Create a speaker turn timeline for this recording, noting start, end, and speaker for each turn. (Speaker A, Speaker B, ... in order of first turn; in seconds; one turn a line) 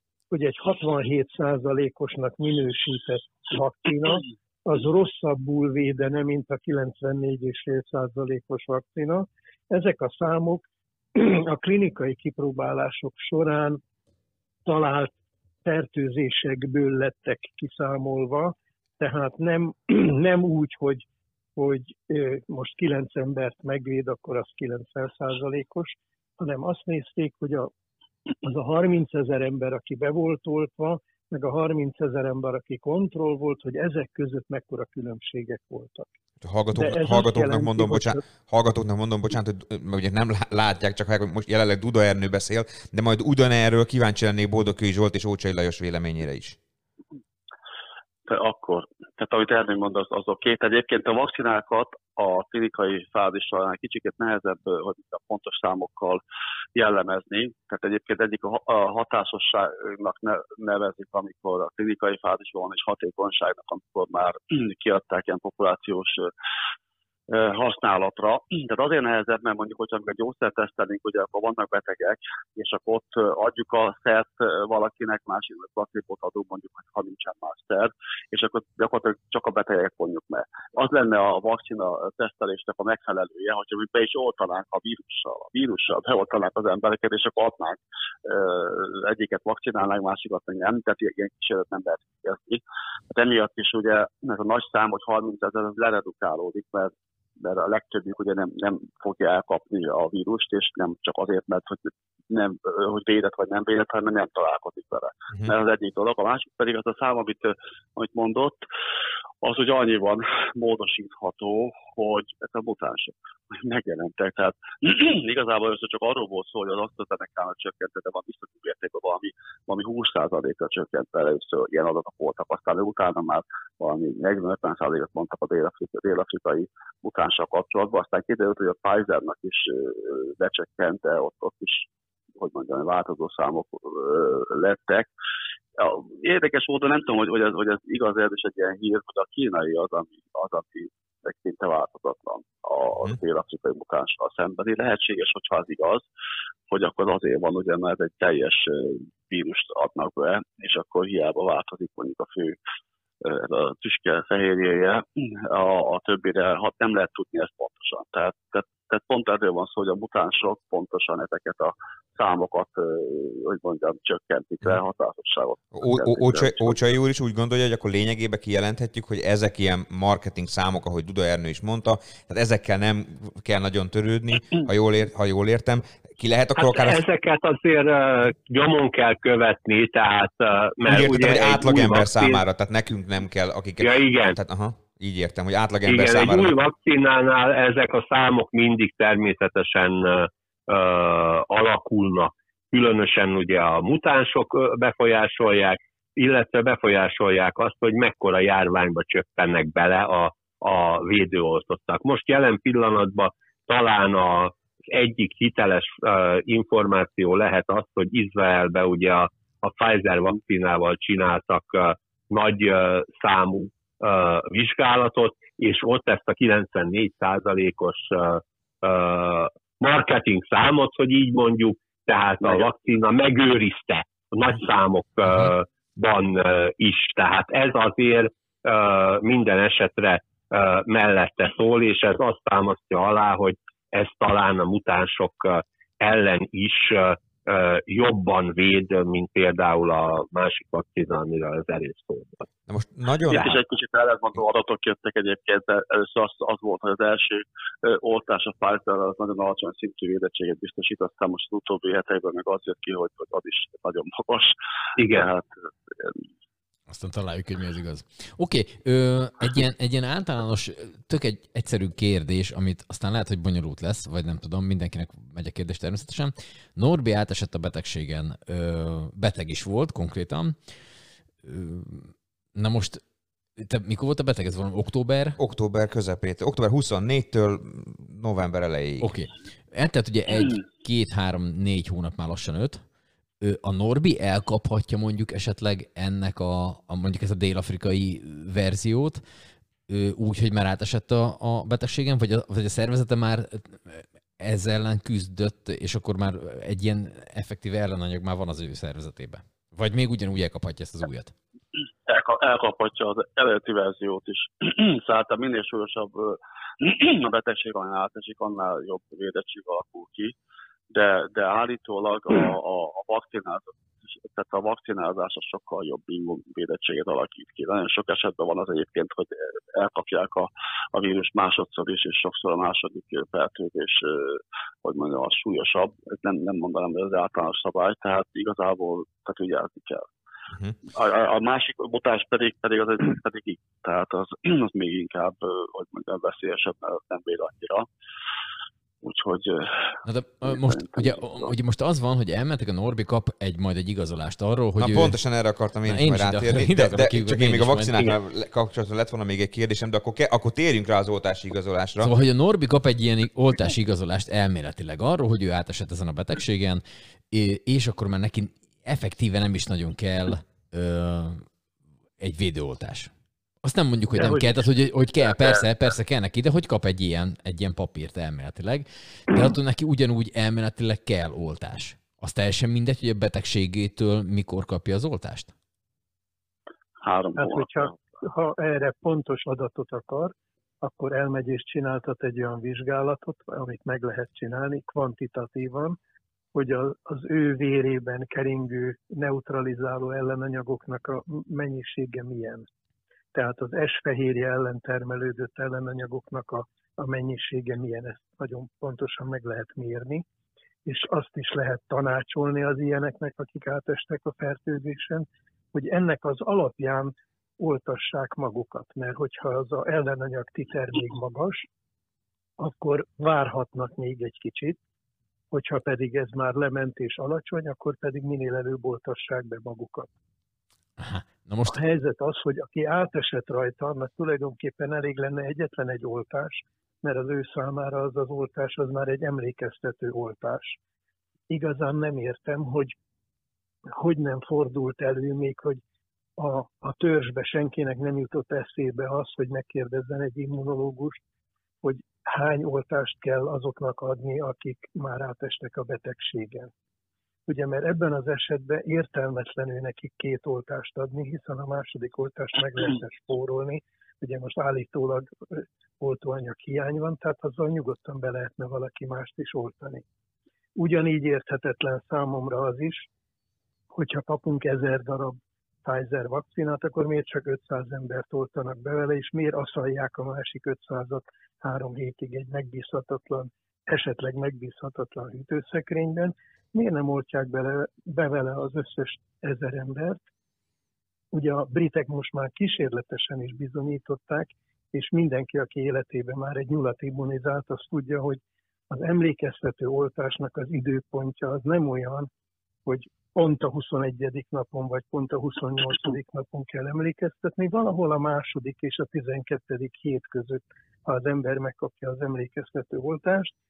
Speaker A: 0.3-10.6
Speaker A: 11.2-13.8
Speaker A: 14.7-15.1
Speaker A: 15.6-21.1
Speaker A: 21.6-27.7
Speaker A: 28.4-36.1
Speaker B: 36.4-46.6
Speaker A: 36.8-38.2
Speaker C: 48.3-56.2
Speaker C: 56.8-66.3
Speaker C: 67.3-108.6
Speaker C: 109.4-131.9
Speaker C: 132.4-135.1
Speaker C: 135.8-146.1
Speaker C: 146.7-152.6
Speaker C: 153.2-166.8
Speaker B: 165.7-177.0
Speaker D: 176.6-182.4
Speaker B: 180.8-186.5
Speaker D: 183.8-184.4
Speaker D: 185.9-242.4
Speaker B: 242.7-243.6
Speaker C: 243.3-256.2
Speaker D: 255.0-255.3
Speaker E: 256.9-270.8
Speaker E: 271.4-273.0
Speaker E: 273.6-275.4
Speaker B: 275.4-279.1
Speaker E: 279.0-282.8
Speaker E: 283.4-289.2
Speaker E: 289.9-301.3
Speaker C: 302.1-310.3
Speaker C: 310.9-330.1
Speaker C: 330.9-337.9
Speaker C: 339.0-341.2
Speaker E: 340.0-345.2
Speaker B: 344.8-352.1
Speaker E: 345.9-348.1
Speaker E: 352.0-361.5
Speaker E: 362.2-363.1
Speaker E: 363.6-375.5
Speaker C: 377.0-377.9
Speaker A: 377.4-386.0
Speaker A: 386.5-392.7
Speaker A: 393.3-400.2
Speaker A: 400.9-411.7
Speaker A: 412.6-414.8
Speaker A: 415.5-420.1
Speaker E: 421.0-421.8
Speaker A: 421.7-430.8
Speaker A: 431.5-433.0
Speaker A: 434.0-435.8
Speaker A: 436.4-441.2
Speaker A: 441.8-446.7
Speaker A: 447.5-460.0
Speaker A: 460.8-463.1
Speaker A: 463.9-480.2
Speaker A: 481.3-492.3
Speaker A: 492.9-503.5